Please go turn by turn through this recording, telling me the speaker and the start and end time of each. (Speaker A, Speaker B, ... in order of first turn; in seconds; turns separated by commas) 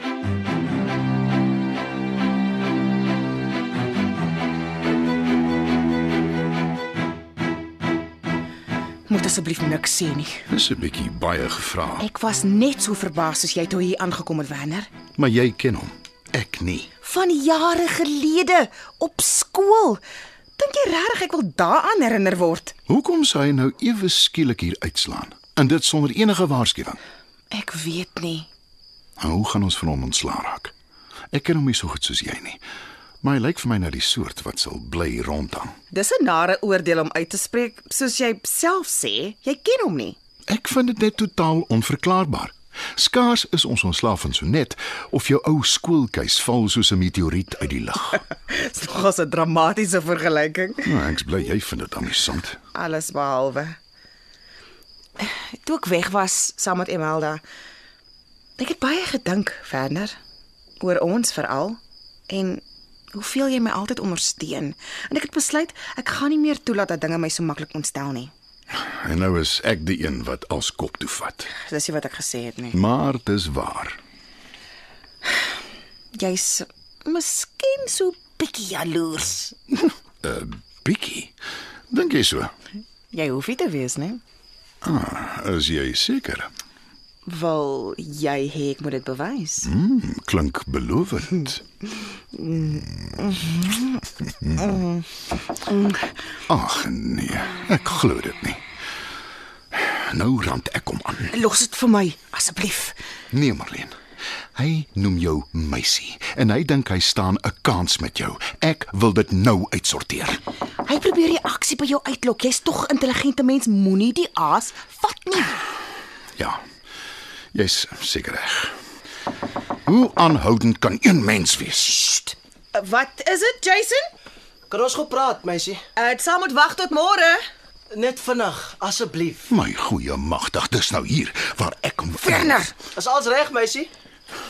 Speaker A: 9.1-10.4, Speaker B: 10.5-12.0, Speaker A: 12.0-14.9, Speaker B: 15.2-16.9, Speaker A: 17.0-20.0, Speaker A: 20.6-22.8, Speaker B: 22.9-27.0, Speaker A: 27.5-28.5, Speaker B: 29.2-30.7, Speaker B: 31.3-32.6, Speaker B: 33.2-35.7, Speaker A: 35.9-40.2, Speaker B: 40.5-48.2, Speaker A: 48.4-50.9, Speaker B: 50.9-52.6, Speaker A: 52.7-53.8, Speaker A: 55.2-57.4, Speaker A: 58.6-60.1, Speaker A: 60.8-62.6, Speaker A: 63.1-68.3, Speaker B: 69.0-71.5, Speaker A: 71.6-72.8, Speaker B: 72.7-74.0, Speaker A: 76.2-79.6, Speaker B: 80.2-81.3, Speaker B: 81.9-82.5, Speaker A: 83.1-84.2, Speaker B: 84.8-86.5, Speaker A: 87.2-89.7, Speaker B: 89.6-91.6, Speaker A: 92.3-94.0, Speaker A: 94.6-95.1, Speaker A: 95.7-96.0, Speaker B: 96.5-98.6, Speaker B: 99.7-101.3, Speaker A: 101.3-103.0, Speaker B: 103.3-103.9, Speaker B: 104.5-110.4, Speaker A: 110.9-115.6, Speaker B: 117.5-118.7, Speaker B: 119.9-122.1, Speaker A: 122.1-124.0, Speaker C: 124.7-125.8, Speaker A: 126.0-127.4, Speaker C: 127.9-129.5, Speaker B: 129.5-132.6, Speaker A: 132.2-132.7, Speaker C: 132.9-133.9